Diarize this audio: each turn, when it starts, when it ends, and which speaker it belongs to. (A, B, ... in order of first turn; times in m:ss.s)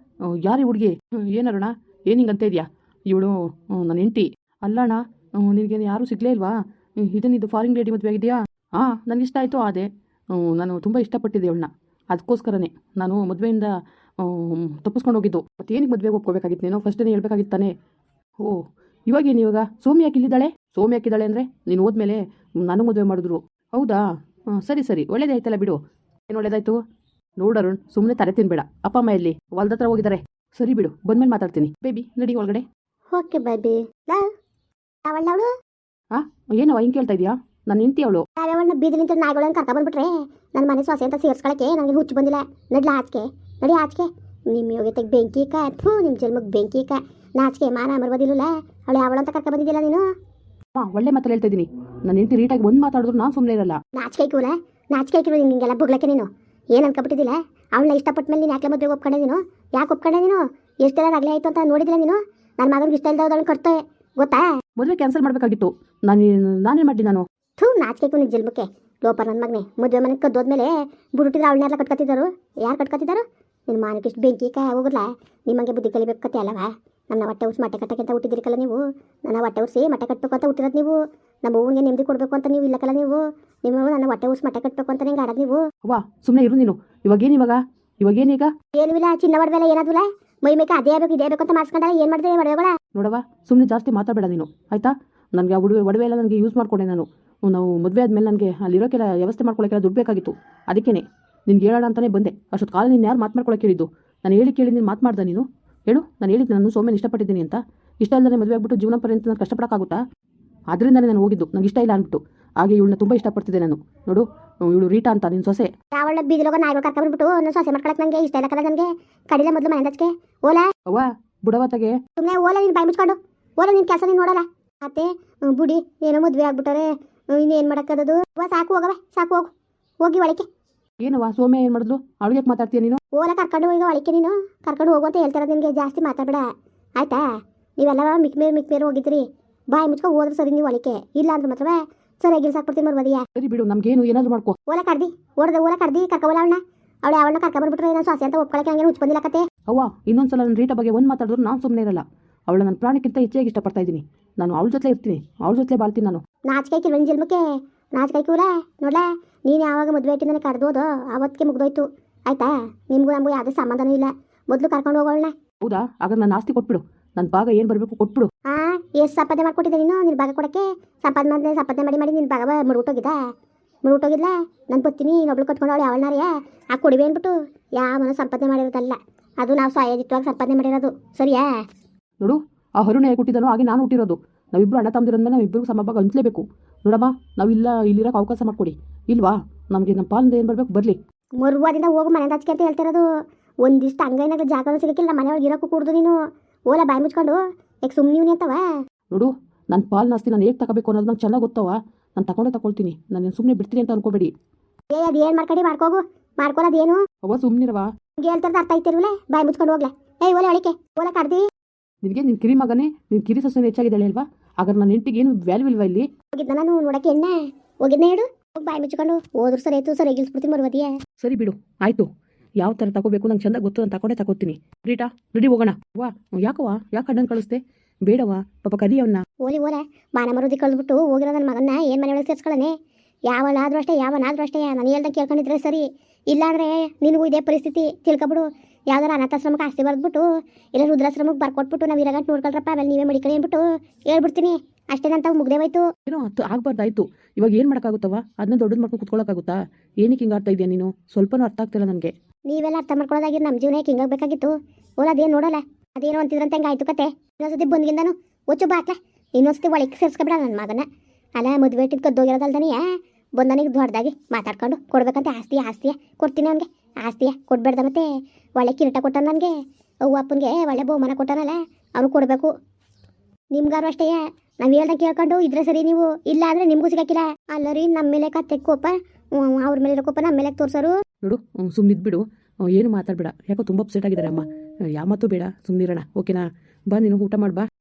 0:00.3-0:17.7 A
0:18.4-0:24.0 A
0:24.5-0:26.8 A
0:27.4-0:32.6 A
0:33.1-0:34.3 B
0:35.0-0:35.5 B
0:36.1-0:38.2 A
0:38.4-0:50.0 B
0:50.8-0:53.8 A
0:54.0-1:04.4 B
1:04.8-1:07.2 A
1:07.6-1:20.9 B
1:21.4-1:25.6 B
1:25.8-1:28.5 A
1:28.7-1:32.8 B
1:32.9-1:50.0 A
1:50.7-1:55.7 A
1:55.9-2:00.7 B
2:00.9-2:02.0 A
2:02.2-2:09.5 B
2:10.0-2:10.4 B
2:11.0-2:13.0 A
2:13.1-2:16.4 B
2:17.8-2:23.2 B
2:23.4-2:24.6 A
2:24.7-2:29.4 B
2:29.7-2:36.2 A
2:36.5-2:37.4 B
2:38.0-2:45.3 B
2:45.6-2:48.3 A
2:48.5-2:53.2 B
2:53.9-3:01.4 B
3:02.2-3:11.0 A
3:11.4-3:13.0 B
3:13.6-3:16.2 B
3:16.7-3:18.6 B
3:19.1-3:24.3 A
3:24.9-3:27.0 B
3:27.2-3:27.9 A
3:28.2-3:31.4 B
3:32.0-3:36.1 A
3:36.4-3:40.9 B
3:41.2-3:42.1 A
3:42.6-3:49.2 A
3:49.4-3:52.7 B
3:53.3-4:00.2 B
4:00.7-4:05.8 B
4:06.1-4:12.1 A
4:12.5-4:20.8 B
4:21.4-4:22.8 B
4:23.4-4:28.0 B
4:28.6-4:29.5 B
4:30.1-4:32.5 B
4:33.5-4:40.9 B
4:41.2-4:47.6 A